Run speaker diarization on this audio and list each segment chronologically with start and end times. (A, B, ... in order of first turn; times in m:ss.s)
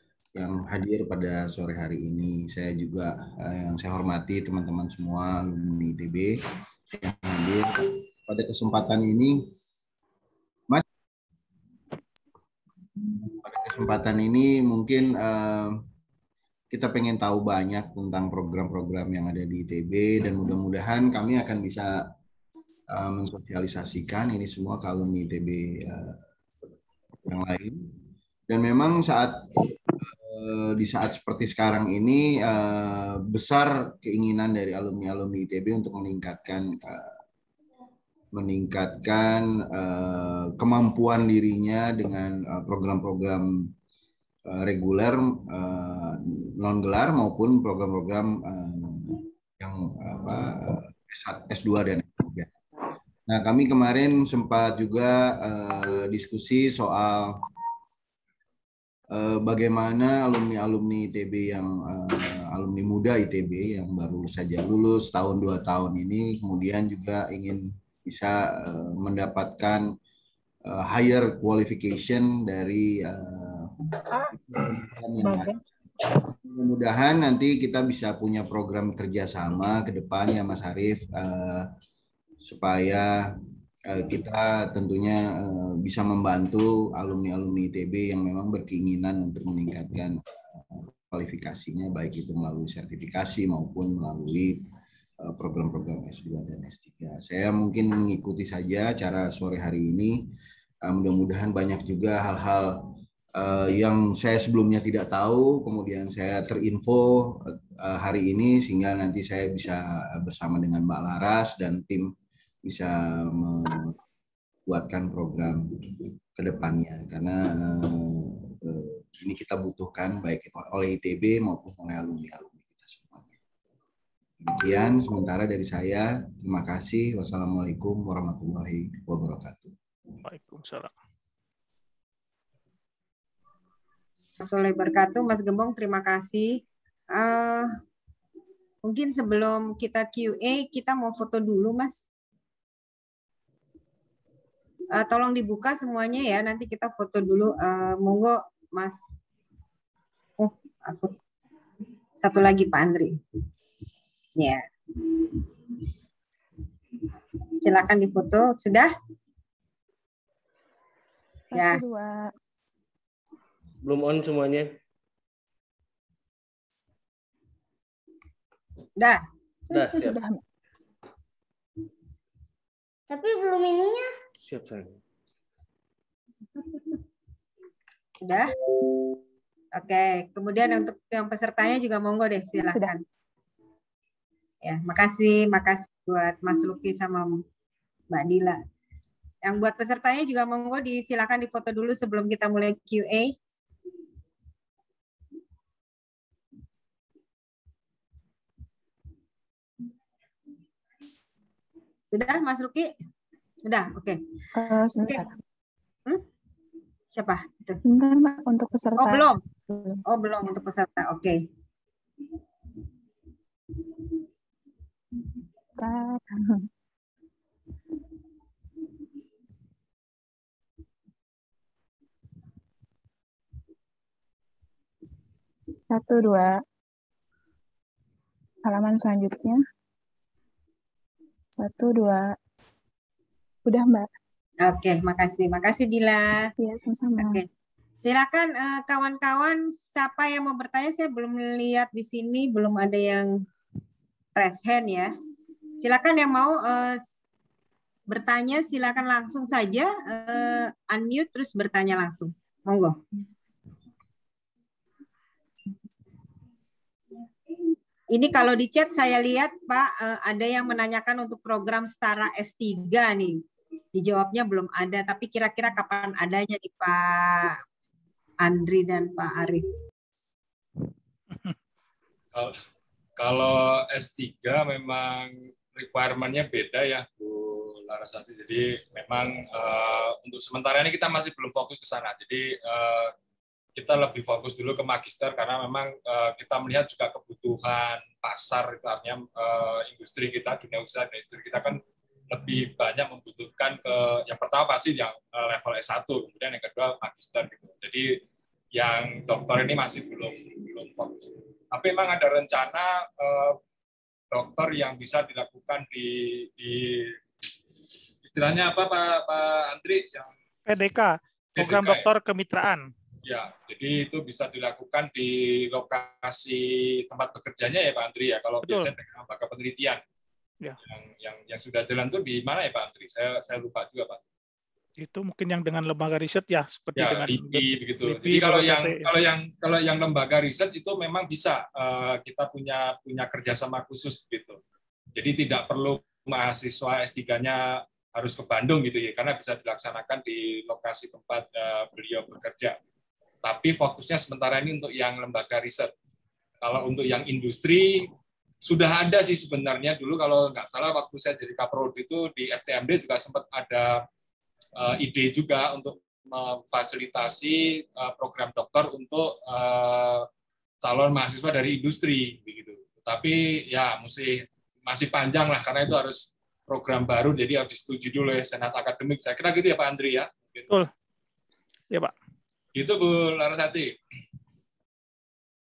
0:00.4-0:06.4 A
0:06.9-0:09.4 A
0:13.3-0:15.8 A
0:16.7-0:22.1 A
0:22.9-0:26.2 A
0:27.2-0:27.8 A
0:28.5-0:37.2 A
0:38.3-0:43.7 A
0:44.5-0:52.5 A
0:53.3-0:57.4 A
0:59.1-1:09.9 A
1:10.6-1:15.6 A
1:16.2-1:21.7 A
1:22.4-1:23.2 A
1:23.9-1:34.6 A
1:35.2-1:40.2 A
1:40.9-1:42.9 A
1:43.4-1:52.1 A
1:52.6-1:54.0 A
1:54.7-2:03.4 A
2:04.4-2:09.7 A
2:10.2-2:10.9 B
2:14.4-2:17.7 C
2:18.8-2:22.0 C
2:24.9-2:29.0 C
2:30.4-2:31.2 C
2:32.2-2:33.2 C
2:34.4-2:34.6 C
2:37.6-2:38.9 C
2:41.5-2:42.1 D
2:41.6-2:41.8 C
2:43.8-2:44.7 E
2:49.0-2:49.2 C
2:49.7-2:50.2 E
2:49.9-2:50.4 D
2:54.4-2:55.0 E
2:58.2-2:58.5 C
2:59.8-3:03.0 C
3:04.6-3:07.4 C
3:08.1-3:08.6 C
3:09.4-3:13.3 C
3:22.1-3:22.9 C
3:23.7-3:24.2 C
3:24.6-3:25.3 D
3:27.2-3:27.8 C
3:27.9-3:30.0 D
3:29.0-3:29.4 C
3:30.1-3:31.4 C
3:35.8-3:36.6 D
3:45.9-3:46.5 D
3:48.6-3:49.6 D
3:51.6-3:52.2 D
3:53.7-3:54.1 D
3:54.6-3:56.5 C
3:56.6-3:57.4 D
3:57.2-3:57.4 C
3:58.0-4:03.3 C
4:04.4-4:05.1 C
4:05.8-4:07.0 C
4:08.1-4:13.0 C
4:18.1-4:23.4 C
4:23.9-4:27.6 C
4:28.4-4:29.6 C
4:33.2-4:43.1 F
4:43.8-4:58.2 F
4:58.7-5:03.6 F
5:04.3-5:07.2 F
5:08.2-5:10.3 F
5:10.7-5:12.8 B
5:11.6-5:12.1 F
5:13.2-5:20.0 F
5:18.6-5:18.9 B
5:20.8-5:24.2 F
5:25.0-5:29.0 B
5:27.0-5:34.6 F
5:35.2-5:42.8 F
5:43.4-5:45.9 F
5:46.6-5:48.1 F
5:48.6-5:54.0 F
5:54.8-6:00.3 F
6:00.8-6:10.6 F
6:12.7-6:14.0 F